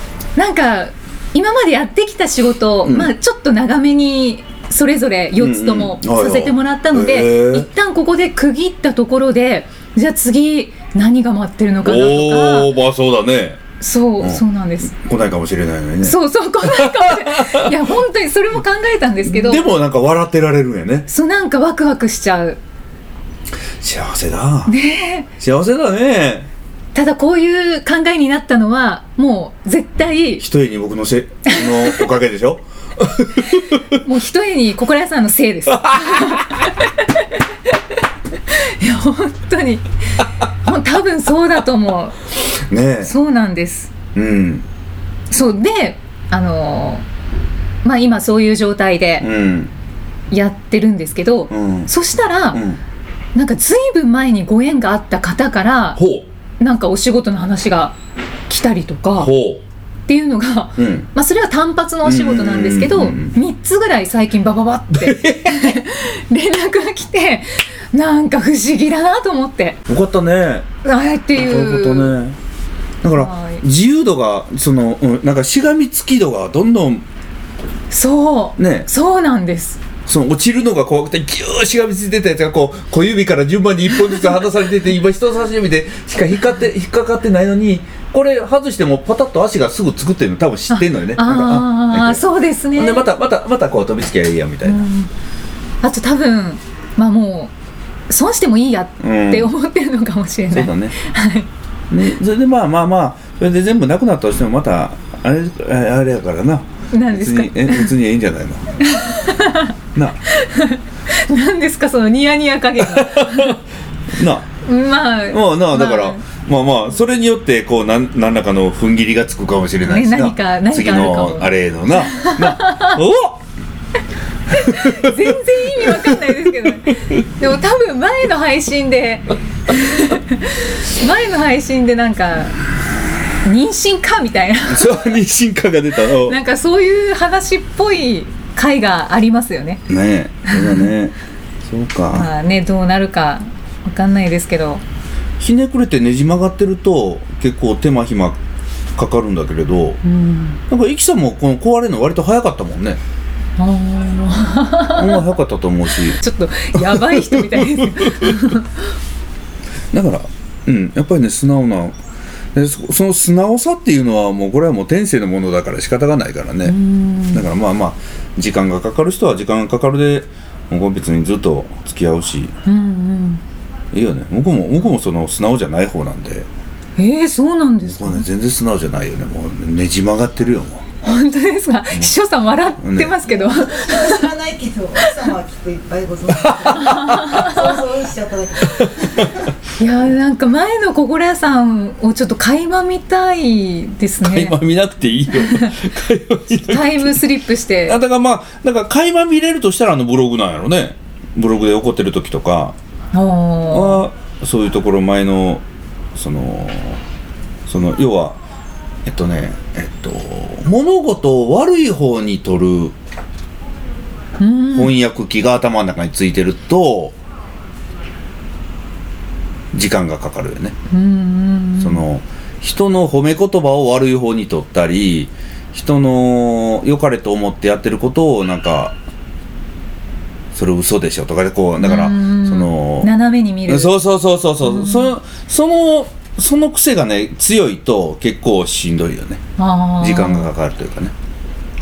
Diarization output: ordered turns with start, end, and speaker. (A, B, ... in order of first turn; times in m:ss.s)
0:00.4-0:12.7 A
0:02.8-0:03.1 B
0:05.4-0:07.7 B
0:11.8-0:13.6 B
0:13.8-0:14.9 A
0:14.2-0:17.8 B
0:16.0-0:19.6 A
0:19.2-0:21.1 B
0:21.1-0:22.6 A
0:23.8-0:24.7 B
0:24.7-0:25.3 A
0:25.4-0:26.5 B
0:26.9-0:30.4 A
0:30.4-0:33.8 B
0:31.5-0:32.0 A
0:33.9-0:37.4 A
0:35.7-0:36.5 B
0:38.5-0:42.2 A
0:42.7-0:43.1 B
0:43.0-0:43.9 A
0:44.1-0:44.6 B
0:45.3-0:47.0 A
0:47.8-0:49.3 A
0:49.2-0:49.7 B
0:50.3-0:52.6 A
0:51.5-0:51.9 B
0:52.5-0:52.8 B
0:53.3-0:56.0 A
0:56.0-0:56.3 B
0:56.6-0:57.9 A
0:58.5-0:59.3 A
0:59.2-0:59.6 B
1:00.1-1:09.8 A
1:00.8-1:01.1 B
1:02.0-1:03.3 B
1:04.9-1:05.8 B
1:09.9-1:10.7 B
1:10.8-1:12.2 A
1:11.3-1:12.4 B
1:13.0-1:17.0 B
1:13.1-1:13.6 A
1:17.9-1:19.8 A
1:18.6-1:18.9 B
1:20.0-1:32.2 B
1:30.7-1:33.1 A
1:32.7-1:34.8 B
1:34.6-1:35.1 A
1:35.8-1:37.5 A
1:38.1-1:41.5 A
1:39.0-1:39.5 B
1:40.5-1:41.0 B
1:41.9-1:48.6 B
1:46.9-1:47.9 A
1:48.8-1:49.7 A
1:49.9-1:50.2 B
1:50.3-1:53.6 A
1:52.8-1:53.6 B
1:54.1-1:54.5 B
1:54.6-1:56.2 A
1:55.3-2:03.4 B
1:59.8-2:03.0 A
2:04.5-2:12.6 A
2:04.5-2:05.3 B
2:05.8-2:07.2 B
2:13.4-2:15.1 A
2:14.7-2:16.4 B
2:16.1-2:19.8 A
2:19.9-2:22.3 B
2:20.5-2:20.9 A
2:22.1-2:24.8 A
2:25.4-2:28.4 B
2:29.0-2:30.0 B
2:30.0-2:30.6 A
2:30.7-2:33.0 B
2:33.6-2:35.2 A
2:34.9-2:36.2 B
2:36.1-2:38.7 A
2:36.7-2:38.5 B
2:39.9-2:42.0 B
2:42.5-2:46.8 B
2:46.6-2:47.4 A
2:47.3-2:52.5 B
2:52.6-2:53.4 A
2:53.9-2:56.5 B
2:57.0-2:58.3 A
2:57.8-3:00.8 B
3:01.0-3:04.3 A
3:02.8-3:03.2 B
3:03.3-3:09.4 C
3:05.0-3:05.3 A
3:06.3-3:07.5 B
3:06.7-3:07.8 A
3:08.7-3:09.4 B
3:09.8-3:14.6 A
3:14.2-3:17.2 B
3:15.3-3:15.7 A
3:16.7-3:18.0 A
3:17.8-3:22.8 B
3:23.1-3:24.0 A
3:23.7-3:25.6 B
3:26.1-3:27.0 B
3:27.6-3:28.4 B
3:29.0-3:33.0 B
3:34.4-3:34.9 A
3:34.7-3:37.2 B
3:39.7-3:40.7 B
3:40.9-3:42.0 A
3:41.8-3:49.0 B
3:50.5-3:53.1 B
3:51.8-3:54.0 A
3:53.7-3:59.4 B
3:54.6-3:55.1 A
3:59.6-4:00.5 A
4:00.0-4:01.1 B